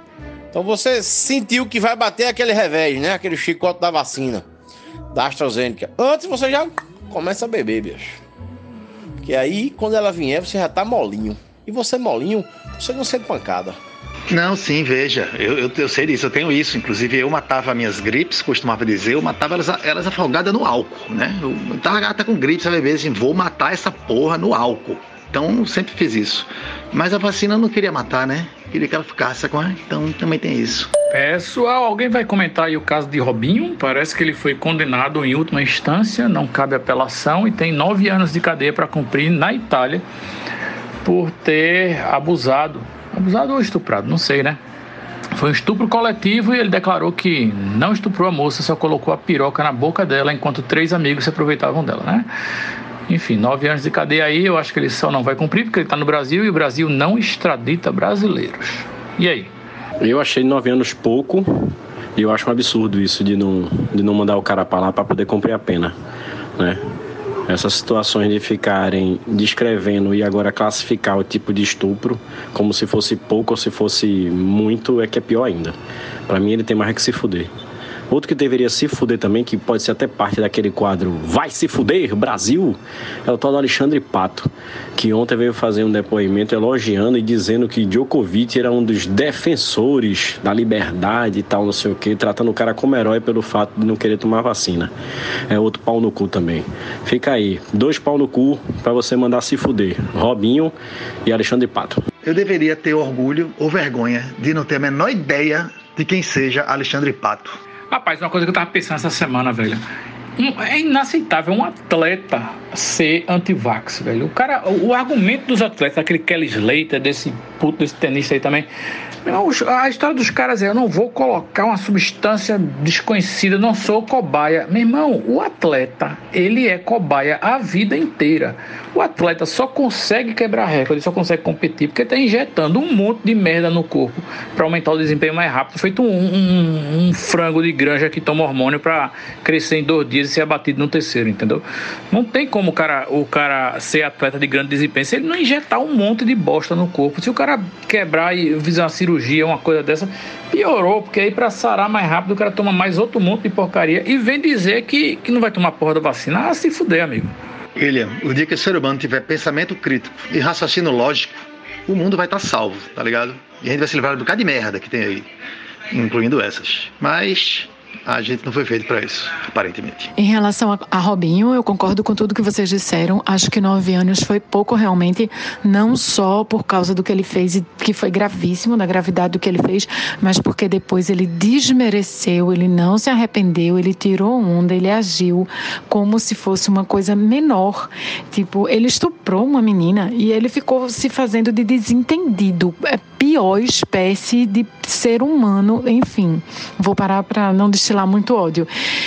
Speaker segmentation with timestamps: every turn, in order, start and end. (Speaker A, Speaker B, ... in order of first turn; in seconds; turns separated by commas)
Speaker A: 0.5-4.5, Speaker A: 5.1-8.2, Speaker A: 9.2-13.8, Speaker B: 14.3-30.9, Speaker C: 31.1-40.0, Speaker C: 41.0-44.6, Speaker C: 45.4-52.3, Speaker C: 53.1-59.5, Speaker D: 60.0-66.0, Speaker D: 66.6-66.8, Speaker D: 67.5-75.8, Speaker D: 76.3-77.5, Speaker D: 78.1-94.9, Speaker D: 95.5-102.0, Speaker B: 102.2-107.6, Speaker C: 107.9-109.8, Speaker C: 110.4-118.7, Speaker C: 119.2-157.3, Speaker B: 157.8-165.3, Speaker B: 165.9-170.1, Speaker E: 170.2-198.7